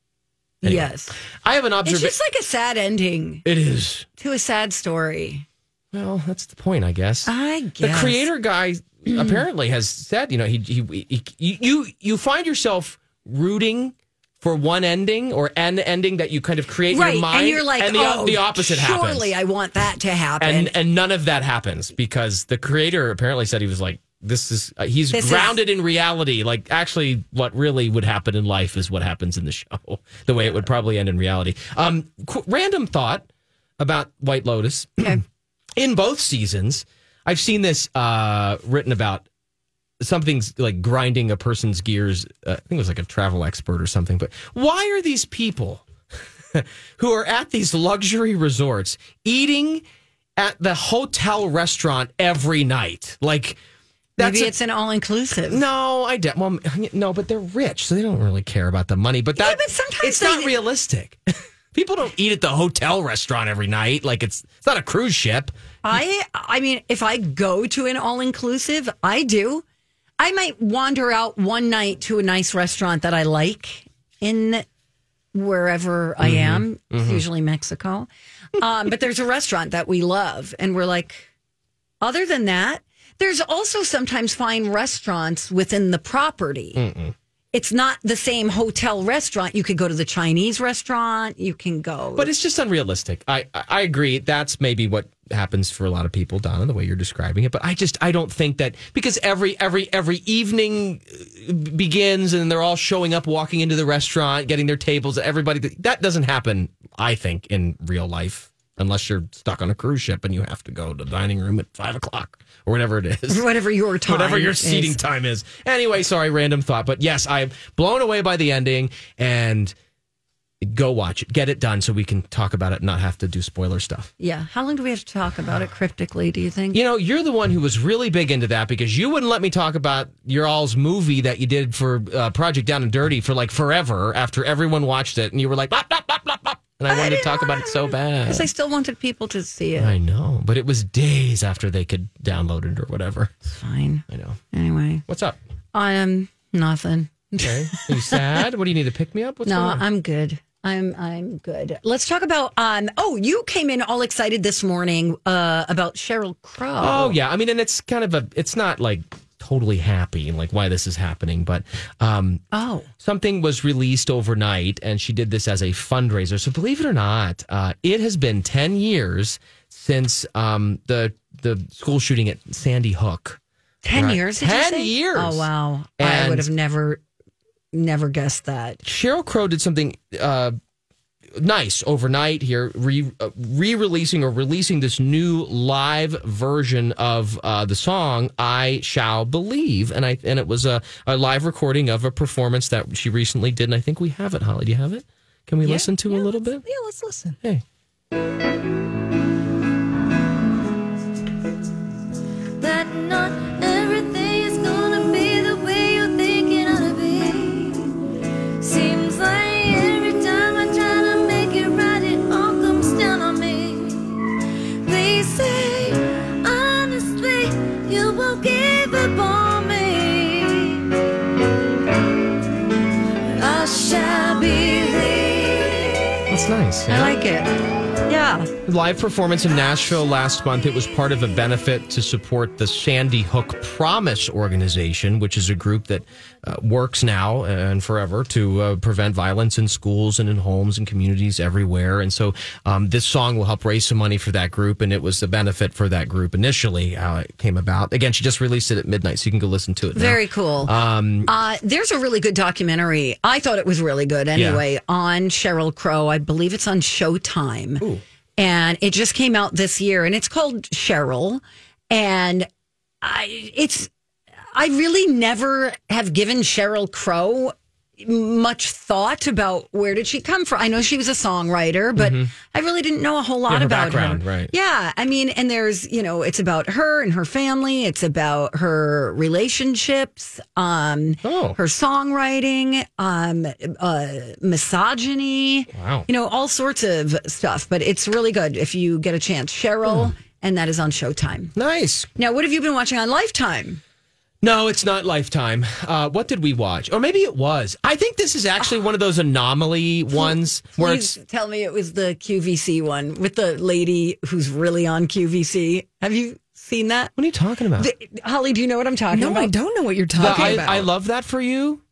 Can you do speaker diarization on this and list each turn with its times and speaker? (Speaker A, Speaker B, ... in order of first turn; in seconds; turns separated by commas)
Speaker A: 0.6-0.9, Speaker B: 0.6-1.1, Speaker A: 1.4-2.2, Speaker B: 1.8-3.4, Speaker A: 3.5-4.1, Speaker B: 4.2-5.5, Speaker A: 5.9-19.3, Speaker B: 7.3-8.3, Speaker B: 9.1-9.4, Speaker B: 16.9-20.7, Speaker A: 20.4-33.3, Speaker B: 25.1-25.6, Speaker A: 33.8-35.2, Speaker A: 35.8-39.2, Speaker A: 40.0-45.8, Speaker A: 46.5-49.8, Speaker A: 50.4-53.6, Speaker A: 54.2-54.5, Speaker B: 54.2-55.6, Speaker A: 55.5-61.2, Speaker B: 59.4-60.5, Speaker A: 61.7-65.5, Speaker B: 65.8-69.6, Speaker B: 70.2-74.7, Speaker B: 75.3-81.3, Speaker A: 76.2-77.2, Speaker B: 82.0-86.8, Speaker A: 86.8-87.1, Speaker B: 87.5-92.3, Speaker A: 92.2-113.5, Speaker B: 113.3-115.0, Speaker A: 114.1-119.7, Speaker A: 120.6-124.1, Speaker B: 124.2-126.8, Speaker A: 126.7-138.5, Speaker B: 136.9-139.9, Speaker A: 139.8-143.3, Speaker B: 143.5-145.0, Speaker A: 144.1-144.4, Speaker A: 145.1-145.4, Speaker B: 145.7-148.2, Speaker A: 147.4-149.8, Speaker B: 149.4-157.2, Speaker A: 156.8-162.4, Speaker B: 162.5-162.9, Speaker A: 163.0-173.4, Speaker B: 173.8-177.0, Speaker A: 173.9-175.5, Speaker A: 176.0-176.5, Speaker B: 177.7-178.8, Speaker A: 178.8-180.6, Speaker A: 181.4-196.6, Speaker C: 195.6-197.4, Speaker D: 202.6-208.0, Speaker D: 208.6-214.3, Speaker D: 214.8-220.9, Speaker D: 223.4-226.2, Speaker A: 226.3-227.2, Speaker B: 226.9-227.5, Speaker B: 228.1-228.5, Speaker A: 228.7-251.3, Speaker B: 249.9-250.7, Speaker B: 251.3-257.8, Speaker A: 254.3-254.6, Speaker B: 258.4-262.5, Speaker B: 263.0-263.9, Speaker B: 264.5-291.5, Speaker A: 272.0-272.3, Speaker A: 273.5-274.5, Speaker A: 281.2-281.6, Speaker A: 285.7-286.1, Speaker A: 291.6-292.1, Speaker B: 292.2-293.8, Speaker A: 294.4-301.1, Speaker B: 300.1-307.1, Speaker A: 307.2-307.9, Speaker B: 307.8-309.5, Speaker C: 309.1-310.9, Speaker B: 310.2-310.6, Speaker A: 310.2-311.8